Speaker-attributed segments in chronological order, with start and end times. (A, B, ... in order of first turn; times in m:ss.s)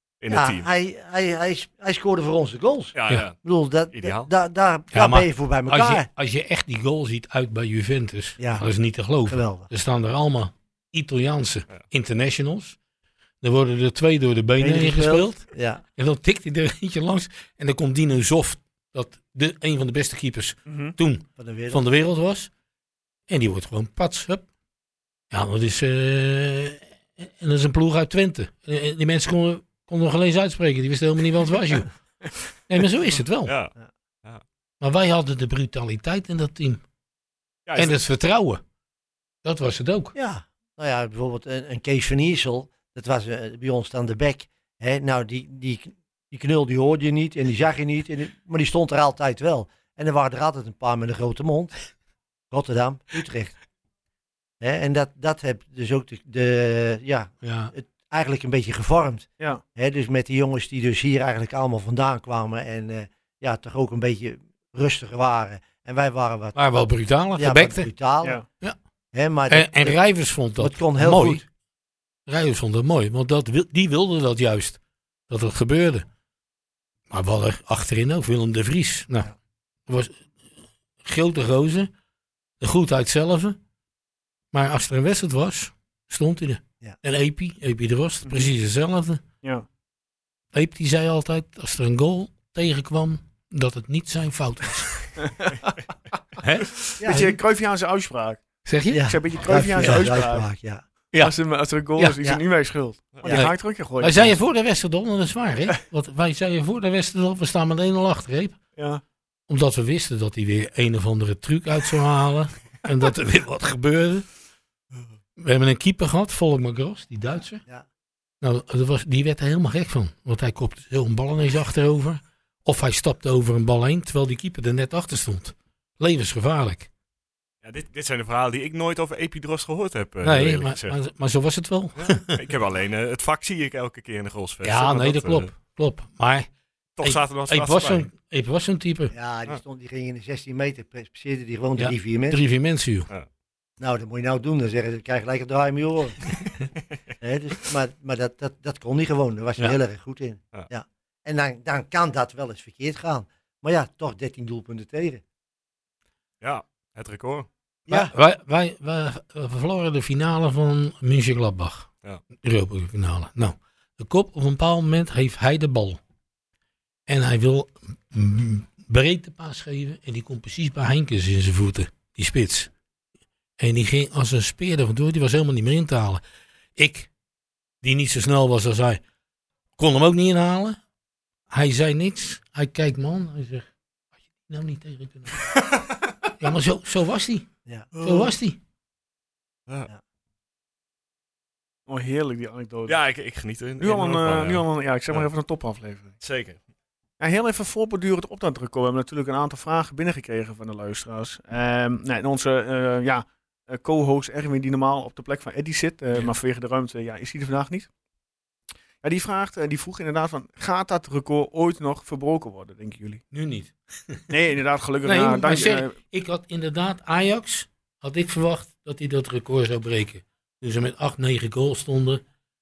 0:00.2-0:00.7 A
0:00.3-0:06.1 B
0:03.0-0:04.3 A
0:04.9-0:12.8 C
0:08.4-0:08.7 B
0:09.3-0:09.7 B
0:13.4-0:22.5 C
0:14.6-0:15.8 B
0:20.7-0:21.0 D
0:21.4-0:21.8 B
0:23.3-0:24.5 C
0:25.3-0:31.9 C
0:32.7-0:33.5 C
0:33.4-0:33.7 A
0:34.8-0:36.8 C
0:37.7-0:38.0 A
0:37.8-0:38.6 C
0:39.4-0:40.2 C
0:40.2-0:51.7 B
0:52.5-0:53.6 B
0:54.6-1:08.4 B
0:57.4-0:57.7 C
1:06.6-1:07.9 C
1:09.1-1:10.0 B
1:09.5-1:11.4 C
1:10.6-1:11.4 B
1:12.3-1:16.1 C
1:17.1-1:19.3 C
1:19.9-1:20.4 C
1:21.0-1:21.9 C
1:22.6-1:23.6 C
1:24.5-1:29.2 C
1:28.2-1:28.5 D
1:30.5-1:35.0 C
1:35.3-1:35.7 D
1:36.4-1:37.3 C
1:37.0-1:37.3 B
1:37.0-1:40.5 D
1:38.6-1:39.0 C
1:38.9-1:40.8 B
1:39.8-1:40.1 C
1:41.2-1:44.4 D
1:43.3-1:48.6 C
1:48.8-1:49.0 D
1:49.5-1:54.3 C
1:55.4-1:57.6 C
1:58.4-2:06.9 C
2:07.6-2:11.0 A
2:10.2-2:12.4 C
2:12.0-2:15.5 A
2:14.6-2:16.5 C
2:17.0-2:18.1 A
2:17.0-2:19.1 C
2:19.1-2:22.4 B
2:21.8-2:23.1 C
2:23.8-2:26.2 B
2:27.2-2:35.2 B
2:36.4-2:37.5 A
2:37.9-2:38.1 B
2:37.9-2:41.9 C
2:42.4-2:46.0 C
2:47.1-2:52.7 C
2:53.6-2:56.2 C
2:56.8-2:57.1 C
2:57.8-2:59.0 C
2:59.8-3:00.8 C
3:01.5-3:03.7 C
3:04.4-3:05.4 C
3:05.6-3:05.8 A
3:06.4-3:07.5 C
3:07.9-3:08.3 A
3:08.0-3:08.6 C
3:11.9-3:13.0 D
3:12.9-3:15.3 A
3:13.8-3:16.1 D
3:16.2-3:16.6 A
3:17.2-3:27.9 D
3:29.0-3:33.2 D
3:33.3-3:34.3 C
3:34.3-3:36.0 D
3:35.0-3:42.2 C